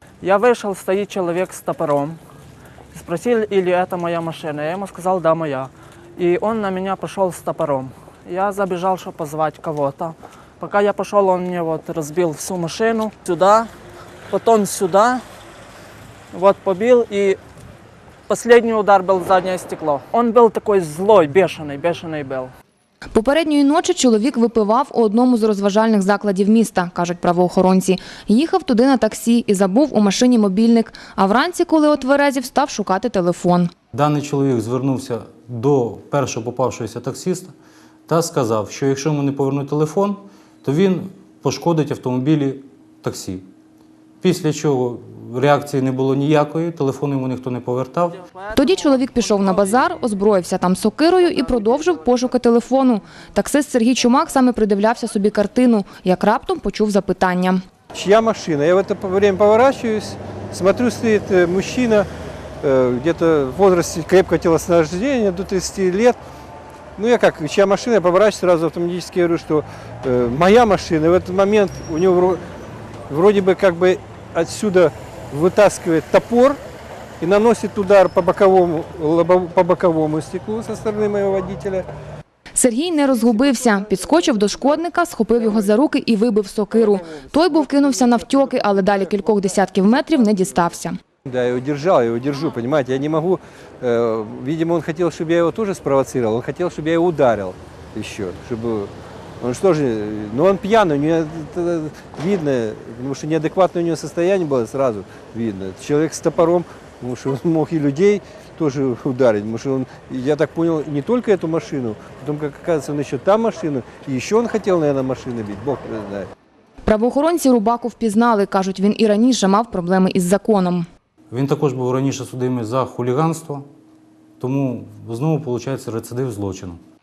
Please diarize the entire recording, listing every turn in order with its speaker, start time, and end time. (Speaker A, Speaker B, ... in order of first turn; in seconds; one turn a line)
Speaker A: 0.2-2.2
Speaker A: 2.9-13.7
Speaker A: 14.3-15.2
Speaker A: 16.3-17.4
Speaker A: 18.3-22.5
Speaker B: 23.1-33.7
Speaker C: 33.9-37.5
Speaker C: 38.1-43.5
Speaker C: 44.2-48.2
Speaker B: 48.5-57.6
Speaker D: 57.9-62.1
Speaker D: 62.6-66.2
Speaker D: 67.0-72.4
Speaker D: 73.1-76.6
Speaker D: 77.2-81.9
Speaker B: 82.5-91.0
Speaker D: 87.0-88.1
Speaker D: 91.3-116.3
Speaker B: 116.8-120.8
Speaker C: 121.3-123.7
Speaker C: 124.4-126.8